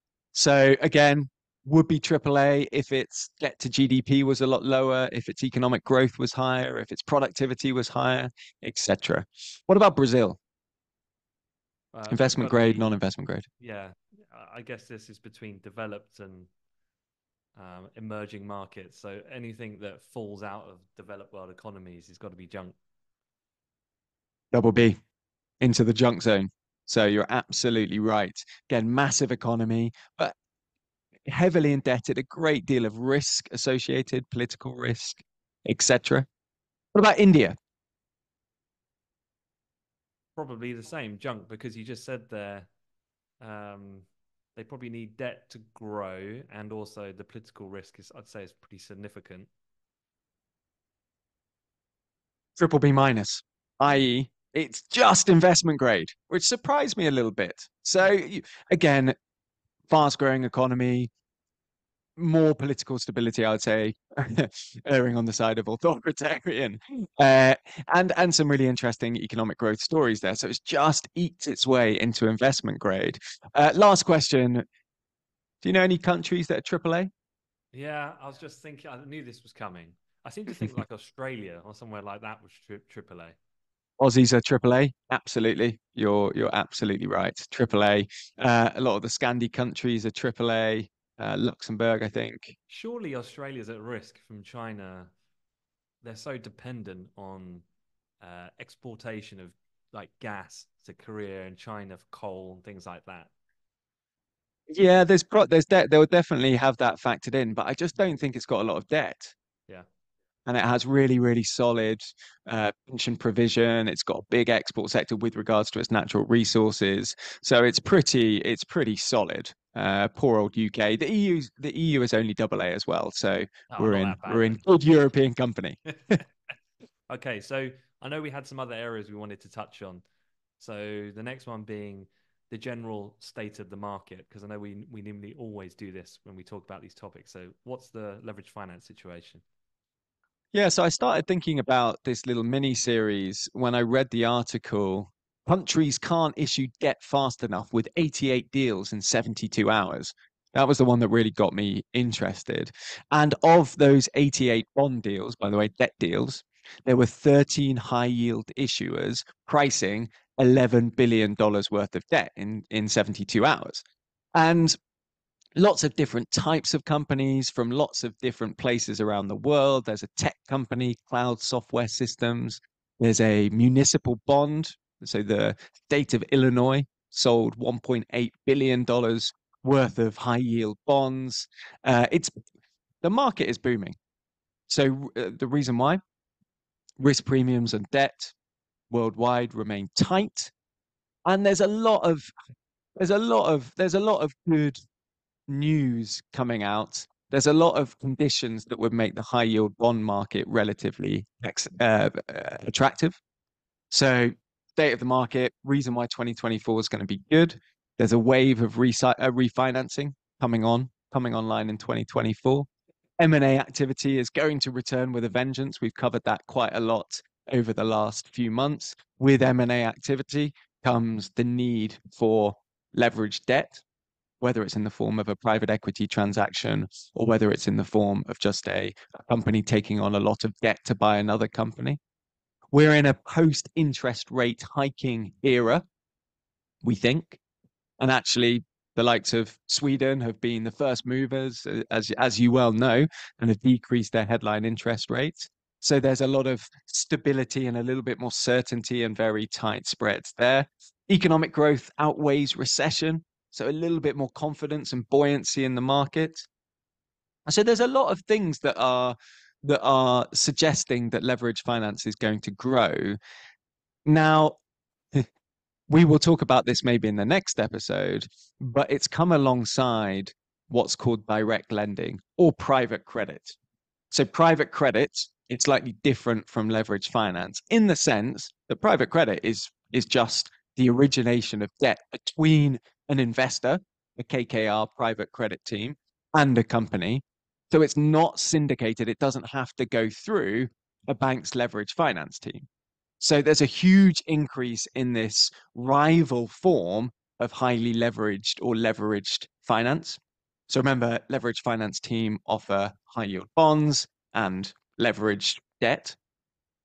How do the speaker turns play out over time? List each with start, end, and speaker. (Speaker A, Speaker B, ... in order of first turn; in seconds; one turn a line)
Speaker A: 0.3-10.4
Speaker B: 11.9-12.9
Speaker A: 12.1-13.4
Speaker B: 13.6-16.5
Speaker B: 17.6-22.7
Speaker A: 24.5-25.0
Speaker A: 25.6-30.4
Speaker A: 31.3-36.3
Speaker A: 36.9-37.5
Speaker B: 40.4-42.7
Speaker B: 43.4-49.5
Speaker A: 52.6-59.1
Speaker A: 59.9-61.1
Speaker A: 62.2-74.6
Speaker A: 75.6-77.1
Speaker B: 77.7-83.4
Speaker A: 84.0-92.5
Speaker B: 92.7-95.1
Speaker B: 96.0-97.6
Speaker B: 98.2-103.3
Speaker A: 104.7-109.3
Speaker A: 110.5-126.2
Speaker B: 123.7-124.6
Speaker B: 127.1-130.0
Speaker B: 130.6-139.4
Speaker A: 140.5-163.8
Speaker A: 164.3-164.8
Speaker A: 165.6-182.3
Speaker A: 183.0-183.9
Speaker A: 184.7-186.0
Speaker A: 187.0-188.3
Speaker A: 188.9-190.5
Speaker A: 191.2-192.3
Speaker A: 193.0-194.8
Speaker A: 195.5-203.2
Speaker A: 203.9-212.7
Speaker A: 213.2-223.8
Speaker A: 224.4-232.0
Speaker A: 232.7-235.8
Speaker A: 236.8-237.4
Speaker A: 238.0-256.5
Speaker A: 257.4-263.2
Speaker A: 264.1-264.6
Speaker A: 265.9-273.6
Speaker A: 274.1-292.7
Speaker A: 293.2-306.2